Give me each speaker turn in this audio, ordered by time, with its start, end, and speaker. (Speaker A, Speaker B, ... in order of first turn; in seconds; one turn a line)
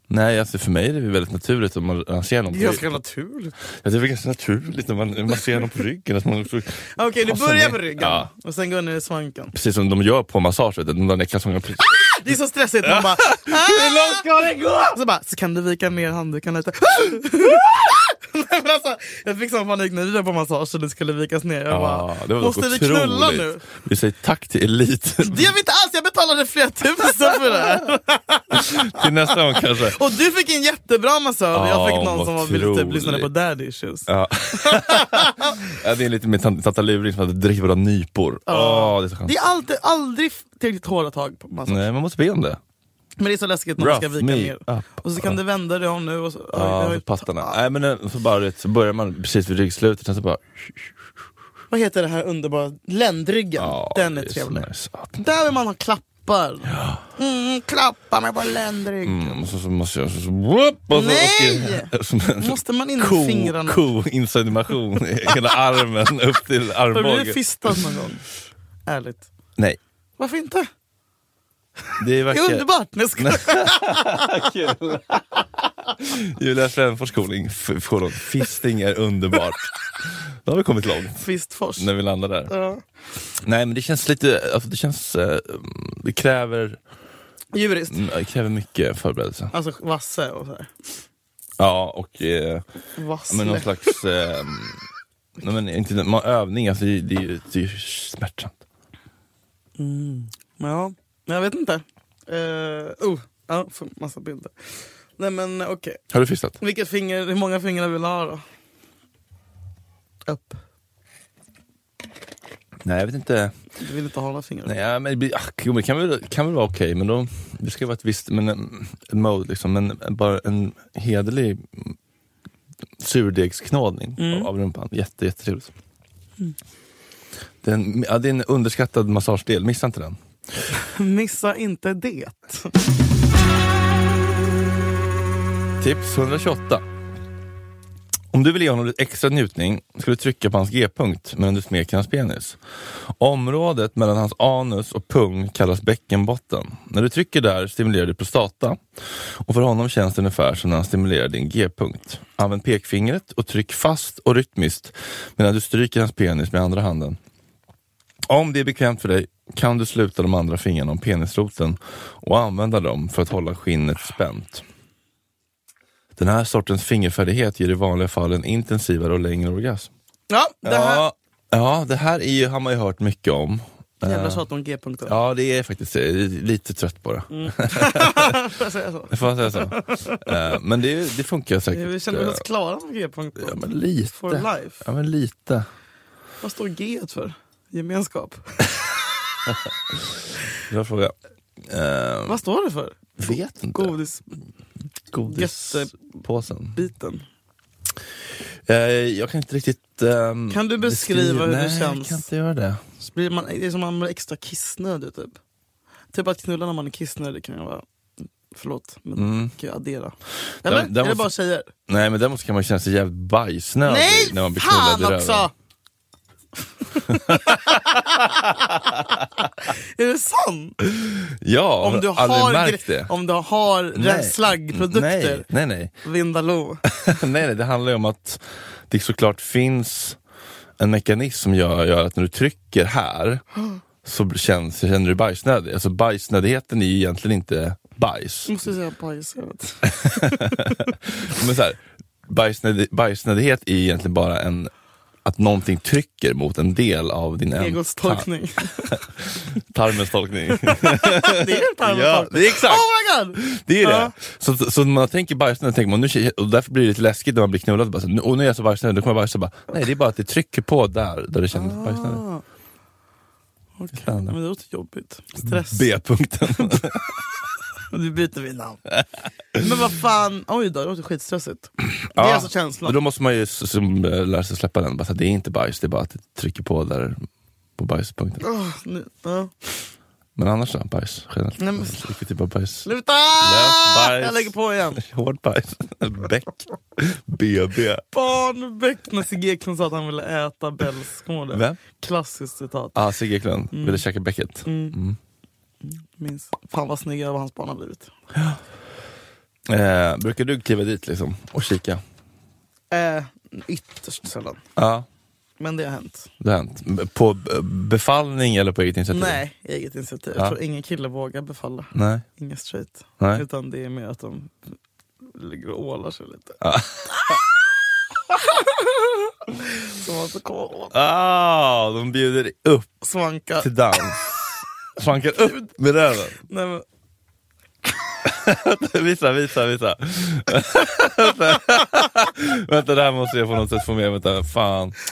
Speaker A: 0.1-3.0
Speaker B: 2.5-3.5
Speaker A: 3.8-8.3
Speaker B: 7.0-9.5
Speaker A: 9.5-12.1
Speaker B: 12.0-23.6
Speaker A: 12.8-14.7
Speaker A: 21.7-25.5
Speaker B: 25.2-35.7
Speaker A: 28.5-30.0
Speaker A: 31.5-33.3
Speaker A: 34.1-39.3
Speaker B: 38.5-41.9
Speaker A: 41.7-42.6
Speaker B: 43.2-47.6
Speaker A: 43.8-45.4
Speaker A: 46.5-50.9
Speaker B: 51.7-59.4
Speaker A: 53.6-55.2
Speaker A: 56.7-57.0
Speaker A: 59.0-67.9
Speaker B: 60.9-63.9
Speaker B: 66.9-68.2
Speaker B: 68.8-69.3
Speaker B: 70.2-70.7
Speaker A: 72.0-72.7
Speaker B: 72.3-74.4
Speaker A: 73.2-81.2
Speaker B: 81.2-81.9
Speaker A: 81.8-82.5
Speaker B: 82.5-82.8
Speaker A: 83.4-86.8
Speaker B: 87.5-88.0
Speaker A: 87.9-89.5
Speaker B: 89.5-90.7
Speaker A: 91.6-92.6
Speaker B: 93.0-94.0
Speaker A: 93.3-94.8
Speaker A: 95.4-98.6
Speaker B: 99.8-106.0
Speaker A: 106.1-106.6
Speaker B: 106.6-108.4
Speaker B: 110.3-110.6
Speaker A: 112.8-113.5
Speaker B: 113.8-114.7
Speaker A: 114.7-122.0
Speaker A: 123.0-125.7
Speaker B: 124.2-124.5
Speaker A: 127.6-130.2
Speaker B: 130.8-132.8
Speaker A: 135.8-136.8
Speaker A: 138.3-142.6
Speaker A: 143.2-148.8
Speaker A: 149.4-157.2
Speaker A: 158.3-164.6
Speaker A: 166.2-169.9
Speaker B: 170.3-171.0
Speaker A: 170.6-174.4
Speaker B: 174.0-175.2
Speaker A: 175.1-178.4
Speaker B: 177.3-180.5
Speaker A: 179.1-182.4
Speaker B: 181.7-184.8
Speaker A: 183.4-185.7
Speaker B: 186.4-189.6
Speaker A: 190.6-192.4
Speaker B: 192.2-194.3
Speaker A: 193.2-193.9
Speaker A: 195.1-196.8
Speaker B: 195.2-196.2
Speaker B: 196.7-197.2
Speaker A: 198.7-202.8
Speaker B: 200.5-202.3
Speaker B: 203.0-205.4
Speaker B: 206.1-207.8
Speaker B: 208.5-211.7
Speaker A: 209.2-209.5
Speaker A: 210.6-211.3
Speaker A: 211.9-215.5
Speaker B: 213.8-215.5
Speaker B: 216.8-220.8
Speaker A: 217.1-217.8
Speaker A: 220.8-223.1
Speaker B: 221.8-225.5
Speaker A: 223.9-225.9
Speaker B: 226.0-226.9
Speaker A: 226.9-230.2
Speaker A: 230.8-233.4
Speaker A: 234.0-238.5
Speaker B: 238.4-240.8
Speaker A: 239.9-244.7
Speaker A: 245.2-262.2
Speaker B: 247.6-249.0
Speaker B: 250.5-254.1
Speaker B: 261.5-262.4
Speaker B: 263.8-265.9
Speaker A: 263.9-264.3
Speaker A: 265.4-267.1
Speaker B: 266.6-267.1
Speaker B: 267.9-268.8
Speaker B: 269.5-273.0
Speaker A: 272.1-277.2
Speaker A: 277.8-278.4
Speaker B: 278.4-279.7
Speaker A: 280.4-282.9
Speaker B: 281.6-282.1
Speaker B: 282.8-285.0
Speaker A: 283.4-288.0
Speaker B: 288.1-293.0
Speaker A: 291.5-291.8
Speaker A: 292.9-295.2
Speaker B: 293.7-294.0
Speaker B: 294.6-295.0
Speaker B: 295.8-298.1
Speaker A: 298.3-298.6
Speaker A: 299.7-302.0
Speaker B: 302.9-304.6
Speaker A: 304.8-305.1
Speaker B: 305.6-306.3
Speaker A: 306.4-309.4
Speaker B: 309.1-314.6
Speaker A: 311.9-312.2
Speaker B: 315.2-317.5
Speaker A: 316.6-317.4
Speaker B: 318.3-320.9
Speaker A: 320.9-322.9
Speaker B: 323.0-323.7
Speaker A: 323.6-326.4
Speaker B: 326.4-326.8
Speaker A: 328.2-334.9